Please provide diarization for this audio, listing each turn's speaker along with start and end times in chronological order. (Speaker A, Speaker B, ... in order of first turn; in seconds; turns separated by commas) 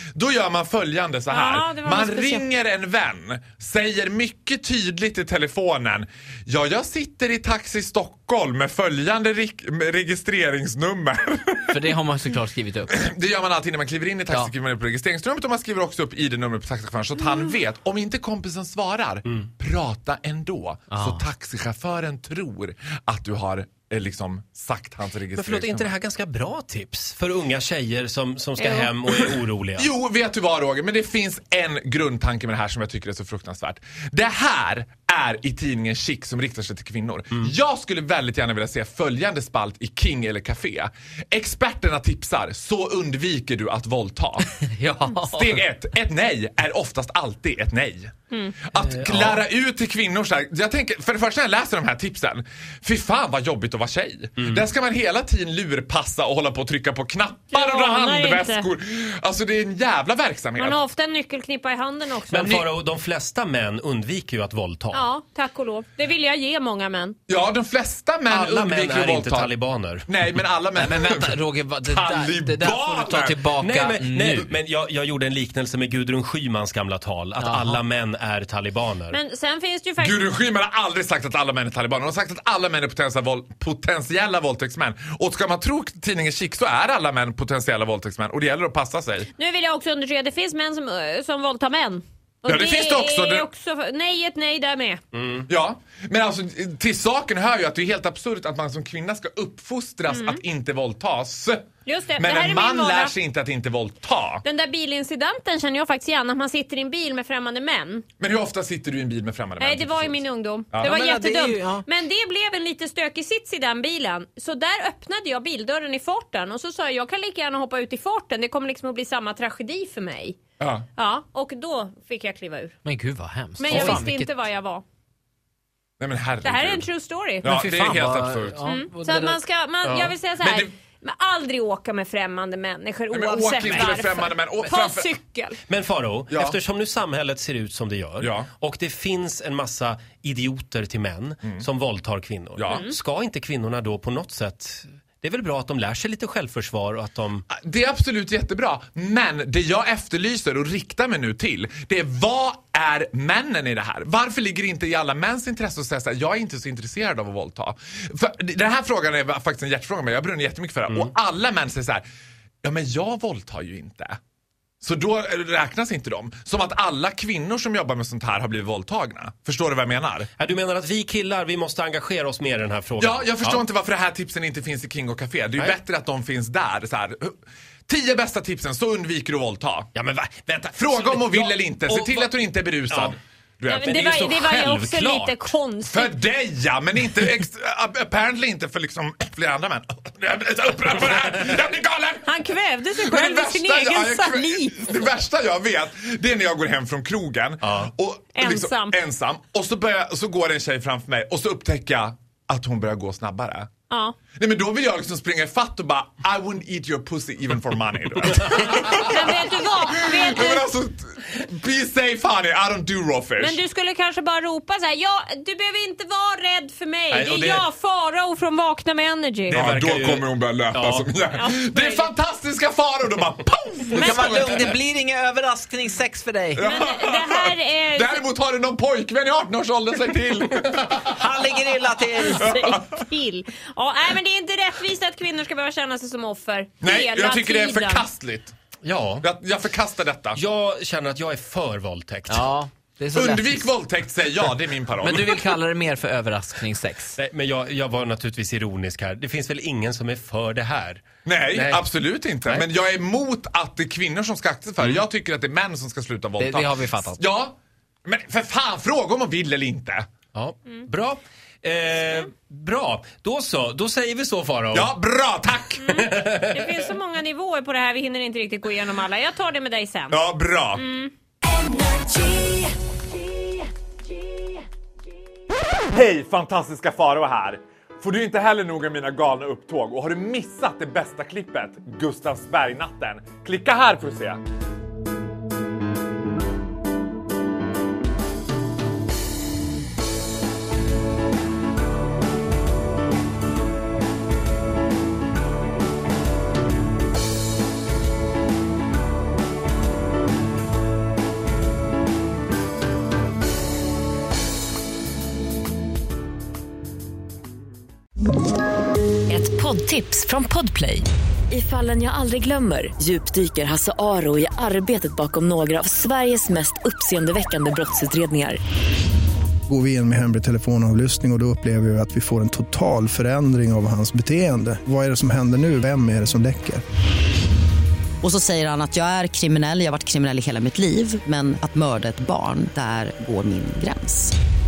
Speaker A: 0.1-11.9, Speaker B: 1.3-2.5, Speaker C: 11.7-13.0, Speaker A: 12.9-25.9, Speaker C: 20.9-21.2, Speaker D: 25.3-29.9, Speaker B: 28.6-28.9, Speaker A: 29.8-44.5, Speaker C: 44.6-45.6, Speaker A: 45.1-48.1, Speaker A: 48.6-60.8, Speaker D: 54.4-54.6, Speaker B: 57.5-58.7, Speaker B: 60.6-62.7, Speaker D: 62.3-65.1, Speaker B: 64.9-67.2, Speaker A: 67.3-69.5, Speaker D: 68.3-70.1, Speaker A: 70.1-73.5, Speaker C: 70.8-74.5, Speaker D: 73.6-79.2, Speaker C: 77.4-77.8, Speaker B: 79.1-80.3, Speaker A: 80.0-89.3, Speaker B: 89.3-95.0, Speaker A: 92.5-93.5, Speaker D: 95.1-95.5, Speaker A: 95.5-101.6, Speaker B: 100.1-100.4, Speaker B: 101.8-103.1, Speaker A: 102.2-104.4, Speaker B: 104.4-108.0, Speaker A: 108.2-111.0, Speaker B: 109.6-120.4, Speaker C: 110.8-111.8, Speaker A: 120.6-120.9, Speaker B: 121.0-122.7, Speaker C: 122.8-124.3, Speaker B: 123.6-124.8, Speaker D: 123.7-124.0, Speaker A: 126.0-126.9, Speaker B: 126.4-127.5, Speaker A: 127.4-128.6, Speaker C: 127.4-129.4, Speaker B: 128.6-135.6, Speaker A: 129.8-130.7, Speaker A: 133.1-135.1, Speaker D: 135.7-147.4, Speaker A: 136.3-136.6, Speaker A: 138.2-138.5, Speaker A: 142.6-142.8, Speaker B: 142.6-142.9, Speaker A: 147.5-162.0, Speaker A: 162.6-164.2, Speaker A: 164.8-170.3, Speaker D: 170.4-173.6, Speaker A: 173.0-179.9, Speaker D: 179.9-182.3, Speaker A: 180.8-184.2, Speaker D: 182.9-183.1, Speaker B: 183.7-186.1, Speaker D: 183.9-185.4, Speaker A: 185.9-192.3, Speaker B: 192.2-194.9, Speaker A: 192.9-203.7, Speaker D: 197.6-197.9, Speaker B: 198.3-198.9, Speaker B: 203.9-204.2, Speaker A: 204.3-213.6, Speaker B: 208.8-210.7, Speaker B: 213.4-219.6, Speaker D: 217.1-217.6, Speaker D: 219.5-221.1, Speaker A: 219.5-224.8, Speaker B: 221.3-222.1, Speaker C: 223.9-226.6, Speaker B: 224.0-224.5, Speaker A: 226.5-231.5, Speaker B: 226.6-228.2, Speaker C: 231.0-232.4, Speaker A: 232.3-233.0, Speaker B: 232.3-238.1, Speaker A: 236.8-238.5, Speaker D: 238.8-239.3, Speaker A: 239.2-240.4, Speaker D: 240.3-242.5, Speaker C: 242.3-243.7, Speaker A: 243.1-245.4, Speaker C: 244.9-247.2, Speaker D: 247.2-251.0, Speaker A: 251.2-260.1, Speaker D: 251.5-251.8, Speaker C: 256.4-257.2, Speaker D: 260.3-264.9, Speaker A: 264.7-266.0, Speaker B: 265.8-270.2, Speaker D: 266.1-266.6, Speaker A: 270.1-270.8, Speaker B: 270.8-271.1, Speaker A: 275.9-284.4, Speaker E: 309.3-318.6, Speaker F: 319.7-326.8, Speaker G: 328.2-334.3